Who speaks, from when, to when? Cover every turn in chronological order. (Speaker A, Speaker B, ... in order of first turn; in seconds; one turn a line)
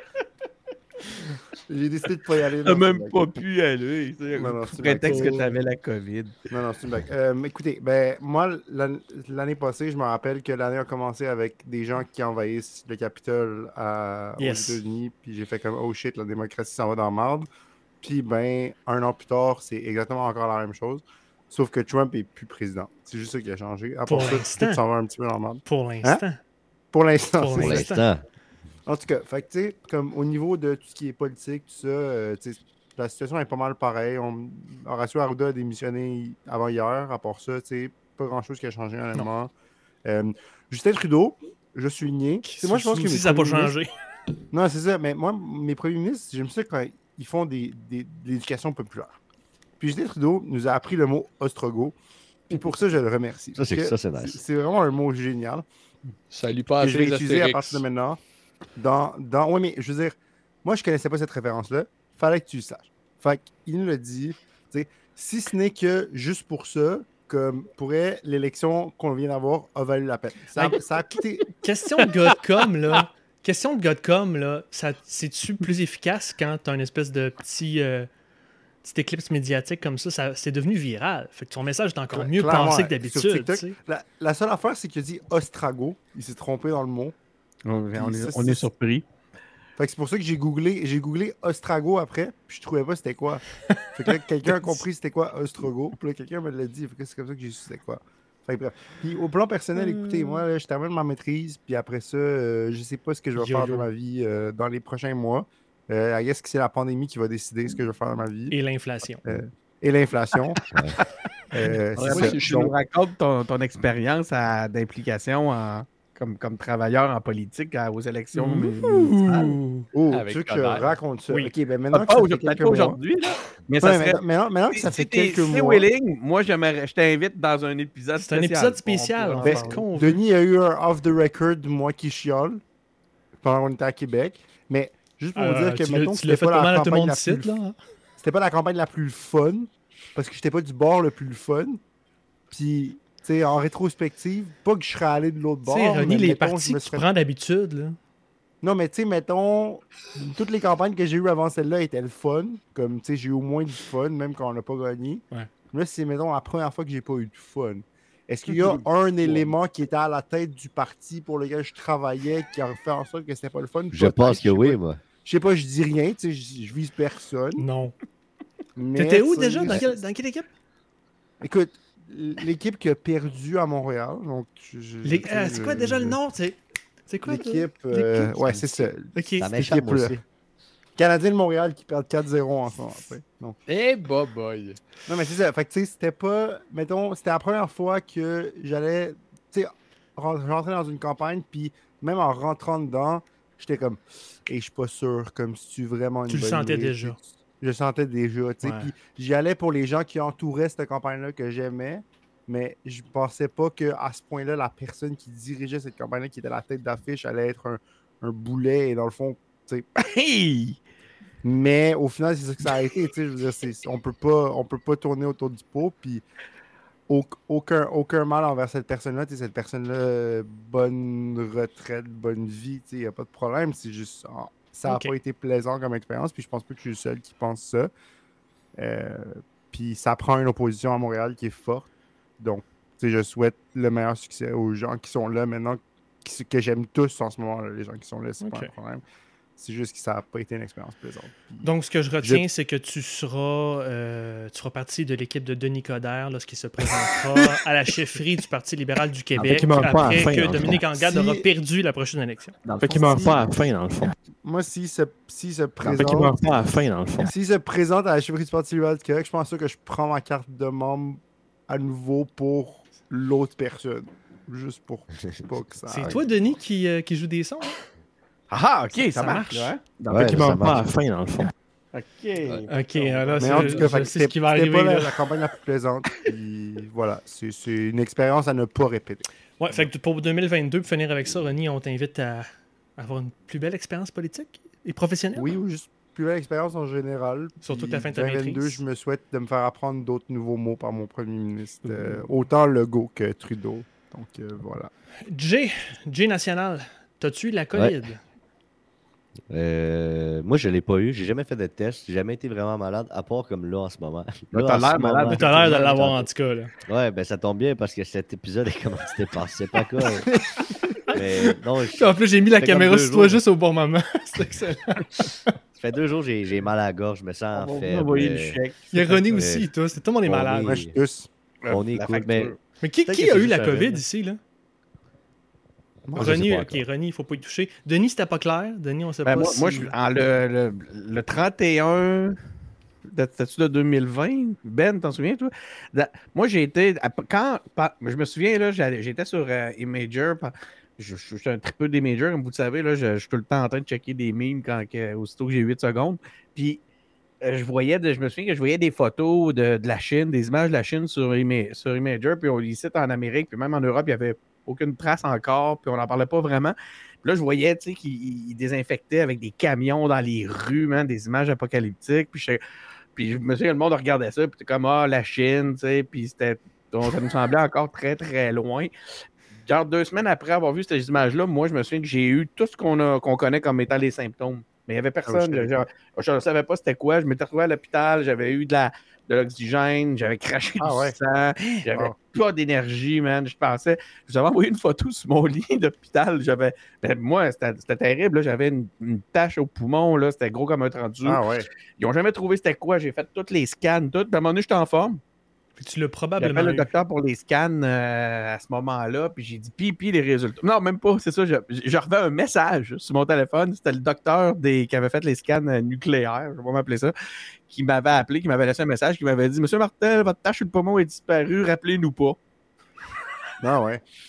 Speaker A: 1.7-3.3
Speaker B: 2.6-6.3
Speaker A: 4.3-5.5
Speaker C: 5.1-5.5
Speaker A: 6.5-17.5
Speaker C: 14.4-14.8
Speaker A: 18.0-26.2
Speaker C: 24.1-24.8
Speaker C: 25.6-26.4
Speaker A: 26.9-27.9
Speaker C: 27.4-28.1
Speaker D: 27.5-28.2
Speaker A: 28.9-39.5
Speaker A: 40.0-43.7
Speaker C: 42.4-43.9
Speaker A: 44.5-49.2
Speaker A: 49.8-51.9
Speaker A: 52.5-55.6
Speaker D: 53.5-54.4
Speaker E: 56.3-57.9
Speaker A: 56.8-58.2
Speaker A: 58.8-71.5
Speaker C: 71.5-78.1
Speaker C: 78.8-83.8
Speaker A: 82.1-87.1
Speaker B: 87.7-89.0
Speaker A: 88.0-88.7
Speaker A: 89.8-108.5
Speaker C: 94.5-94.8
Speaker C: 99.8-100.4
Speaker C: 103.4-103.8
Speaker C: 108.5-109.2
Speaker A: 109.2-110.6
Speaker A: 111.5-112.7
Speaker B: 112.0-119.5
Speaker E: 112.1-112.7
Speaker C: 118.3-119.9
Speaker A: 119.9-123.0
Speaker E: 120.1-120.8
Speaker B: 121.9-124.2
Speaker A: 123.8-125.8
Speaker B: 124.7-129.8
Speaker C: 128.2-130.2
Speaker A: 129.4-132.6
Speaker A: 133.4-137.5
Speaker C: 135.3-137.8
Speaker A: 138.2-141.8
Speaker A: 142.5-147.0
Speaker C: 145.6-148.0
Speaker A: 148.6-167.6
Speaker B: 158.5-158.8
Speaker D: 163.9-165.0
Speaker C: 167.6-167.9
Speaker A: 168.8-170.0
Speaker C: 168.9-170.5
Speaker A: 171.4-176.2
Speaker C: 175.0-178.6
Speaker A: 177.2-180.2
Speaker D: 178.5-180.2
Speaker C: 179.1-179.5
Speaker A: 181.0-183.6
Speaker E: 183.7-184.8
Speaker A: 185.1-209.9
Speaker C: 196.3-197.2
Speaker C: 198.6-198.9
Speaker B: 210.0-210.8
Speaker A: 211.4-216.2
Speaker A: 217.1-227.9
Speaker C: 224.8-225.1
Speaker A: 228.8-231.9
Speaker A: 232.4-239.0
Speaker C: 238.4-238.7
Speaker A: 239.6-241.7
Speaker C: 241.6-252.6
Speaker A: 246.9-247.5
Speaker F: 249.3-250.8
Speaker A: 250.6-251.4
Speaker F: 252.6-254.1
Speaker A: 252.8-253.6
Speaker A: 254.1-256.4
Speaker F: 255.8-257.3
Speaker A: 257.2-266.2
Speaker C: 265.9-267.8
Speaker B: 268.5-270.4
Speaker C: 268.9-269.7
Speaker D: 270.1-270.9
Speaker F: 270.1-271.5
Speaker B: 271.9-273.9
Speaker C: 272.7-275.2
Speaker A: 273.4-279.2
Speaker C: 279.6-285.5
Speaker A: 285.4-294.9
Speaker C: 287.6-288.8
Speaker C: 291.8-292.2
Speaker C: 295.3-298.2
Speaker D: 299.5-306.3
Speaker B: 304.5-305.7
Speaker C: 305.3-306.7
Speaker D: 306.9-310.3
Speaker C: 311.1-315.5
Speaker D: 311.1-313.4
Speaker D: 315.7-318.6
Speaker B: 317.5-319.4
Speaker C: 318.9-320.7
Speaker D: 319.3-319.7
Speaker D: 320.2-320.9
Speaker A: 320.6-321.3
Speaker B: 321.6-322.6
Speaker D: 321.7-324.0
Speaker C: 322.8-324.4
Speaker D: 326.1-326.8
Speaker C: 326.1-329.9
Speaker B: 329.2-332.4
Speaker B: 333.1-346.8
Speaker B: 347.4-362.6
Speaker B: 363.1-368.9
Speaker B: 369.6-391.4
Speaker A: 375.2-375.9
Speaker A: 380.8-381.1
Speaker C: 381.6-381.9
Speaker A: 391.2-391.7
Speaker B: 392.0-395.2
Speaker C: 395.8-396.9
Speaker B: 396.4-407.1
Speaker B: 407.7-412.4
Speaker A: 413.6-414.0